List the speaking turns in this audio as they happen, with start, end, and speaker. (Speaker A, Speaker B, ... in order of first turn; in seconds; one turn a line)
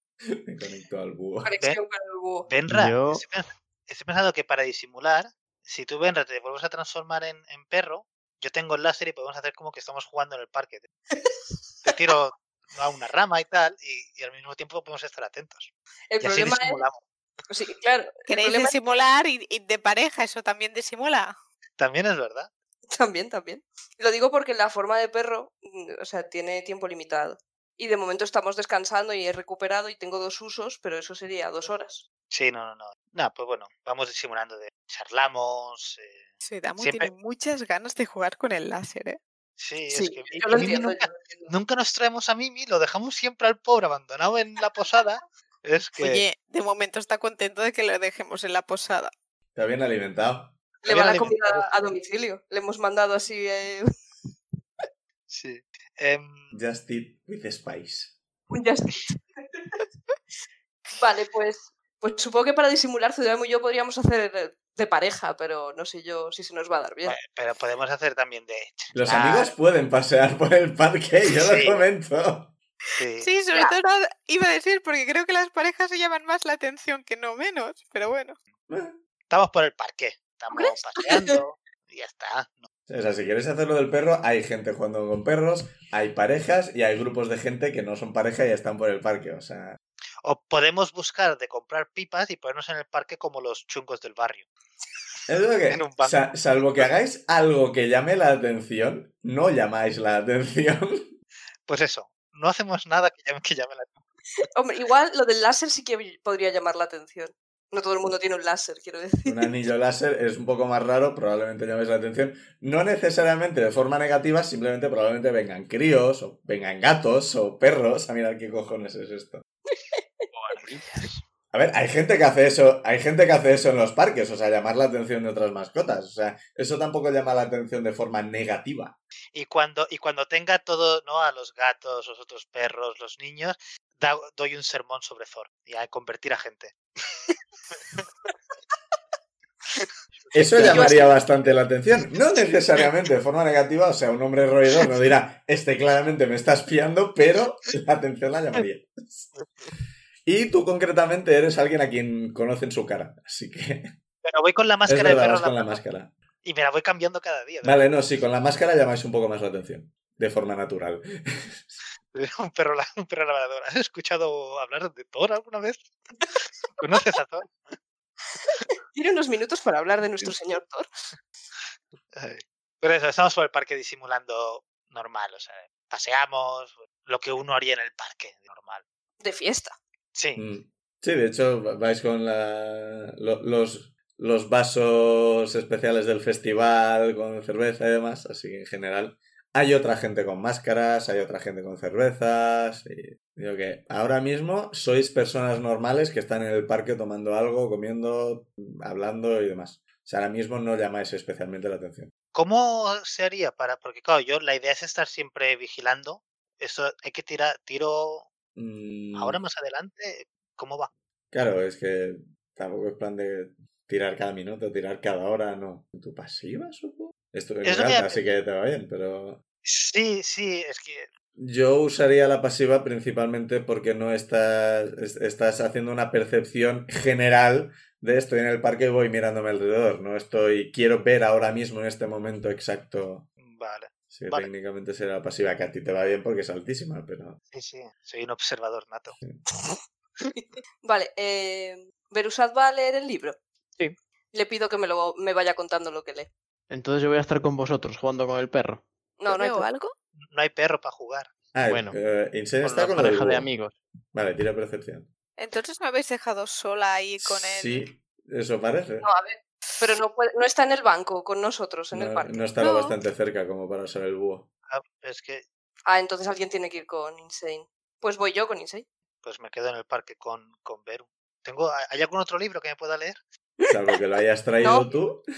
Speaker A: 0.3-1.5
Speaker B: 1.4-2.5
Speaker C: 2.5-10.9
Speaker D: 2.7-3.2
Speaker C: 11.8-15.7
Speaker B: 16.1-16.8
Speaker C: 16.2-17.0
Speaker B: 17.5-18.7
Speaker E: 18.3-21.3
Speaker C: 21.8-22.5
Speaker B: 22.9-32.0
Speaker C: 32.3-36.3
Speaker E: 36.4-39.2
Speaker C: 36.8-37.1
Speaker C: 39.6-46.2
Speaker B: 39.9-41.5
Speaker E: 46.0-49.1
Speaker A: 49.5-50.5
Speaker C: 50.8-51.7
Speaker B: 50.8-53.9
Speaker C: 55.3-56.5
Speaker A: 56.5-58.2
Speaker B: 58.5-59.2
Speaker B: 61.0-67.2
Speaker C: 67.0-69.5
Speaker A: 68.9-72.5
Speaker C: 71.4-71.8
Speaker C: 73.0-73.3
Speaker E: 73.2-78.4
Speaker A: 78.7-79.0
Speaker C: 79.3-82.7
Speaker A: 82.9-89.8
Speaker C: 90.2-94.5
Speaker A: 95.3-101.1
Speaker C: 95.7-96.1
Speaker C: 101.7-104.0
Speaker B: 104.4-109.5
Speaker A: 109.2-119.4
Speaker D: 120.3-121.2
Speaker A: 121.5-129.0
Speaker C: 129.3-136.8
Speaker D: 140.2-141.1
Speaker A: 140.3-149.3
Speaker B: 140.7-141.1
Speaker A: 150.2-153.9
Speaker C: 154.2-155.8
Speaker A: 154.9-156.1
Speaker C: 156.4-157.9
Speaker A: 157.6-161.8
Speaker C: 162.1-165.9
Speaker C: 166.8-167.6
Speaker B: 168.5-170.9
Speaker C: 172.1-178.8
Speaker B: 179.2-179.8
Speaker C: 180.1-180.4
Speaker A: 180.4-202.1
Speaker C: 202.3-208.3
Speaker A: 208.6-209.4
Speaker C: 209.1-210.9
Speaker A: 211.3-219.4
Speaker C: 217.6-218.2
Speaker C: 219.6-221.1
Speaker A: 221.4-233.3
Speaker C: 233.4-234.5
Speaker A: 234.1-237.4
Speaker C: 237.5-239.2
Speaker B: 240.3-243.4
Speaker B: 244.3-246.3
Speaker D: 246.7-248.9
Speaker B: 249.2-249.7
Speaker E: 249.3-249.9
Speaker C: 250.2-251.3
Speaker A: 251.5-253.5
Speaker D: 251.7-252.0
Speaker D: 252.6-253.8
Speaker A: 254.1-255.1
Speaker E: 255.4-257.9
Speaker A: 257.2-259.1
Speaker B: 259.0-262.4
Speaker A: 261.9-264.5
Speaker E: 262.6-262.9
Speaker C: 264.7-265.4
Speaker B: 265.9-268.9
Speaker C: 269.2-273.2
Speaker A: 273.7-275.2
Speaker B: 274.6-274.9